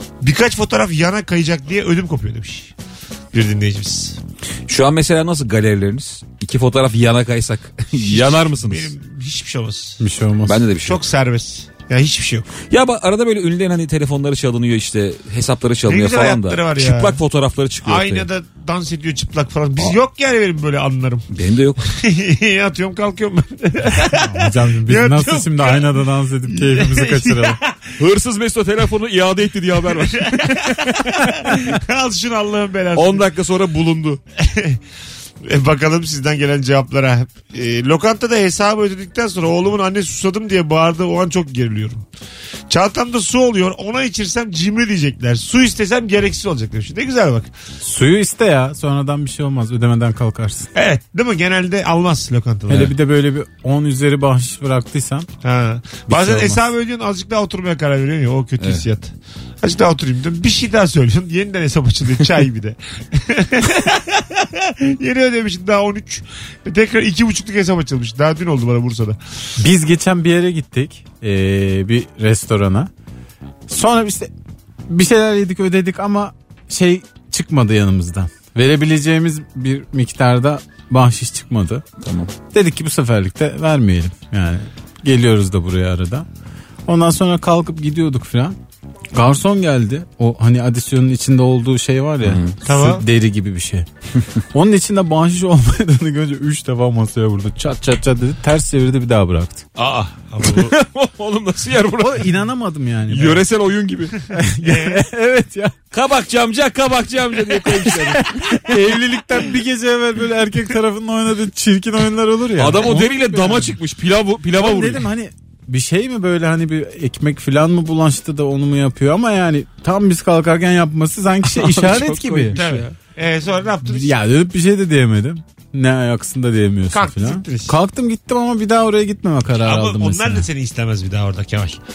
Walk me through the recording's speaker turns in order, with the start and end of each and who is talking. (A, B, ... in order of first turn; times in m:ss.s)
0:00.2-0:02.7 A
0:03.3-0:04.2 A
0:04.7-0:08.9 B
0:08.0-0:10.0 A
0:10.0-0:10.6 C
0:10.5-0:11.0 B
0:10.8-0:12.5 A
0:12.7-0:18.3 B
0:15.9-0:17.2 A
0:17.8-0:21.3 A
0:21.3-0:21.8 B
0:21.8-0:28.0 A
0:24.0-0:27.6 C
0:28.0-0:31.7 B
0:30.0-0:33.3 A
0:33.0-0:34.2 B
0:34.4-0:34.8 A
0:35.4-0:42.1 A
0:42.7-0:47.5 A
0:47.8-0:50.7 C
0:50.7-0:53.0 A
0:52.7-0:55.3 C
0:55.4-1:09.2 A
0:56.1-0:56.6 C
1:09.6-1:12.9 C
1:13.7-1:14.3 C
1:14.9-1:21.8 C
1:22.0-1:22.3 B
1:22.5-1:26.3 C
1:26.9-1:28.6 C
1:29.1-1:33.9 C
1:32.2-1:32.5 B
1:32.6-1:33.0 A
1:34.5-1:39.6 C
1:39.8-1:40.8 A
1:40.4-1:42.3 B
1:42.0-1:43.4 C
1:43.1-1:44.2 B
1:44.3-1:45.8 C
1:44.6-1:45.0 A
1:45.9-1:48.6 B
1:47.7-1:53.8 C
1:52.6-1:55.0 B
1:54.6-2:02.6 C
2:01.6-2:02.8 B
2:02.5-2:04.1 A
2:03.9-2:10.5 C
2:06.9-2:07.8 A
2:09.6-2:11.8 A